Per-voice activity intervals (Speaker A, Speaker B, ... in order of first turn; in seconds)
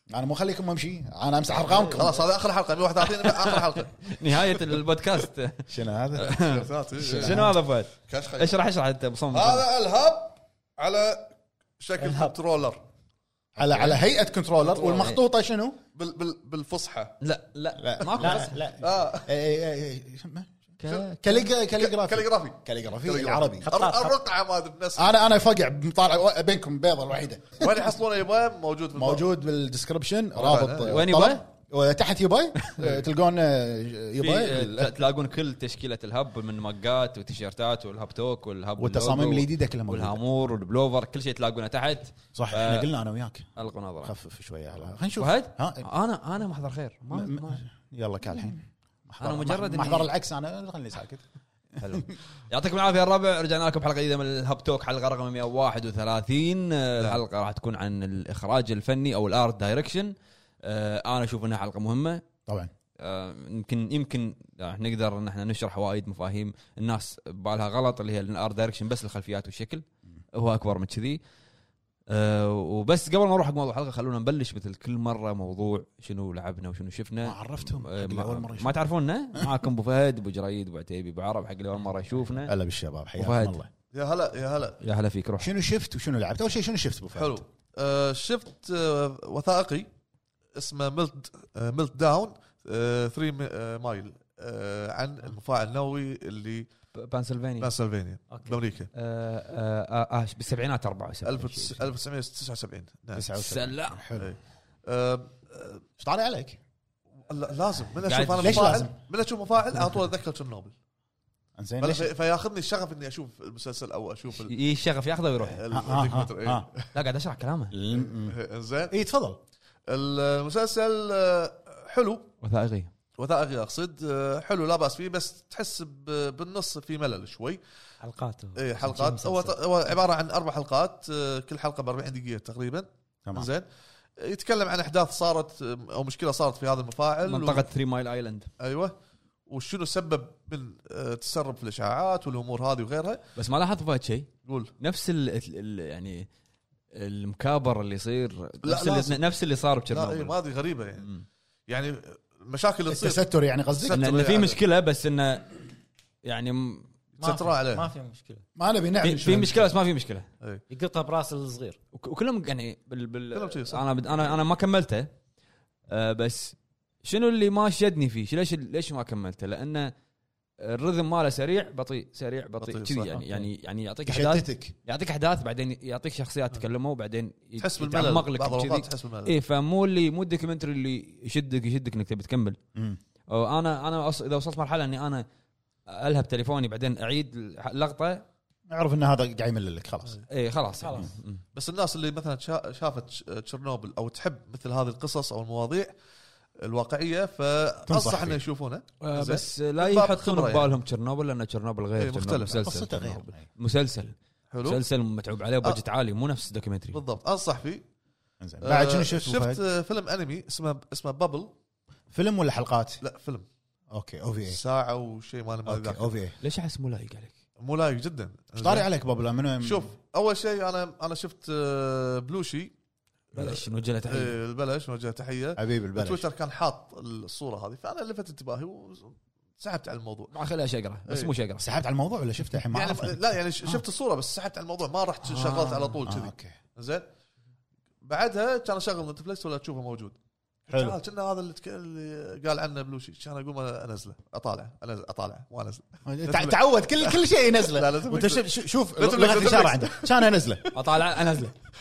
Speaker A: 0.1-2.2, 5.7-6.4, 7.0-7.6, 13.6-15.8, 17.8-23.7, 25.0-27.9, 28.9-34.9, 38.8-40.2, 42.4-43.5, 44.0-45.9, 47.1-51.2, 51.8-52.1, 77.2-78.8, 82.4-83.7, 85.4-87.4, 103.2-104.4, 106.0-106.6, 108.4-108.9, 111.6-112.1, 115.7-116.7, 117.7-118.4, 118.9-119.4, 152.9-154.0, 158.6-159.7, 174.1-174.7, 182.8-183.0, 188.7-190.2, 197.9-198.4, 202.5-203.5, 208.4-209.6, 212.1-213.0, 213.9-214.6, 215.7-216.4, 218.6-219.9, 225.6-226.2, 231.6-233.2, 236.1-236.6, 240.7-241.0, 246.1-250.8
Speaker B: 1.7-2.1, 3.2-9.7, 13.7-14.0, 14.7-15.2, 17.2-18.6, 20.8-21.5, 30.9-31.4, 34.2-42.9, 43.6-44.1, 45.2-47.7, 49.2-50.1, 51.8-62.2, 63.0-71.2, 72.1-82.5, 83.2-83.6, 84.8-85.5, 97.0-97.7, 98.9-101.9, 103.4-104.0, 108.0-108.8, 114.4-115.6, 116.9-117.8, 122.4-122.9, 137.3-138.5, 143.4-146.3, 146.9-150.4, 153.9-155.6, 156.2-156.9, 159.0-160.3, 161.9-165.1, 165.9-169.9, 170.6-182.6, 183.3-185.2, 185.9-188.2, 190.3-191.4, 199.0-207.0, 216.4-217.3, 223.3-224.4, 230.3-231.7, 235.2-236.0, 250.7-251.5
Speaker C: 1.7-4.1, 6.4-7.5, 8.1-8.6, 9.3-12.8, 15.9-17.2, 18.8-19.3, 21.7-25.1, 27.6-29.2, 30.4-31.0, 83.9-84.8, 87.2-89.9, 90.5-96.7, 97.6-98.9, 101.2-103.3, 104.2-105.8, 107.2-110.7, 111.8-114.6, 115.4-116.9, 117.9-119.0, 119.9-122.3, 123.2-127.6, 128.6-133.7, 134.2-137.6, 138.6-138.9, 139.5-143.2, 144.5-144.7, 148.6-149.2, 149.9-151.1, 151.7-153.2, 153.7-154.6, 157.2-157.9, 163.3-163.8, 172.6-173.3, 177.6-179.3, 191.5-195.9, 196.6-200.7, 202.0-202.7, 204.5-204.8, 206.9-207.8, 208.6-211.5, 213.0-213.5, 214.5-216.2, 217.6-218.9, 219.6-222.7, 223.3-230.3, 232.7-237.1, 238.0-248.4, 249.0-250.2
Speaker D: 12.0-12.3, 18.2-18.6, 23.6-24.2, 98.3-98.6, 128.0-129.6, 157.2-158.4, 160.7-161.8, 190.8-191.1